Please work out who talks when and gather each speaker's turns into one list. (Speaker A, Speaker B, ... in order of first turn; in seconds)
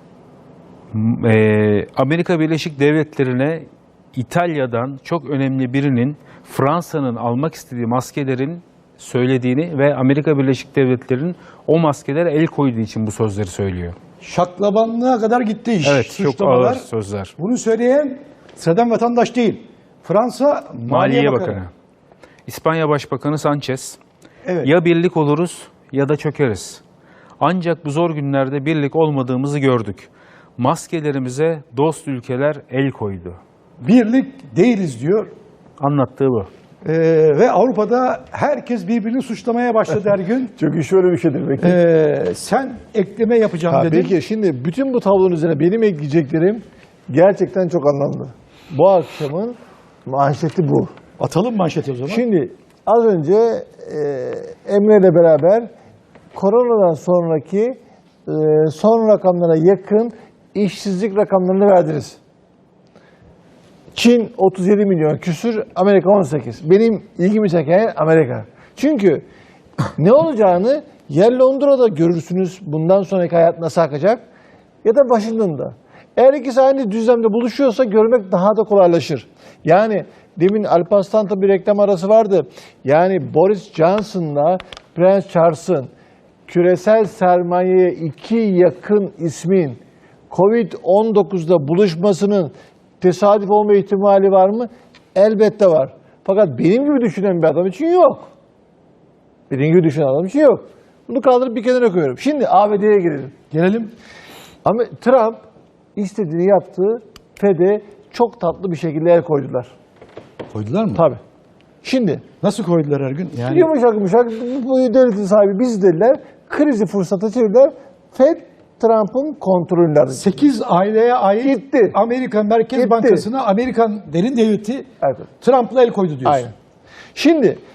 Speaker A: 0.9-13.9, 15.8-17.3, 20.9-21.7, 22.5-24.0, 24.6-26.8, 27.4-33.4, 35.8-36.5
Speaker B: 14.2-16.9, 17.4-21.6, 24.4-24.7, 33.8-35.3, 36.8-40.5, 41.6-44.1, 51.2-52.2, 103.5-103.9, 110.5-111.0, 112.4-113.7, 120.1-126.5
Speaker C: 40.6-41.8, 43.7-50.9, 52.1-55.7, 56.3-62.2, 63.9-69.2, 70.0-74.2, 74.8-85.9, 86.5-98.3, 99.5-103.3, 104.6-105.4, 105.9-109.7, 110.9-111.2, 111.8-112.2, 113.3-120.3, 121.4-122.0, 122.7-123.2, 125.0-125.3, 126.2-126.5, 127.1-127.6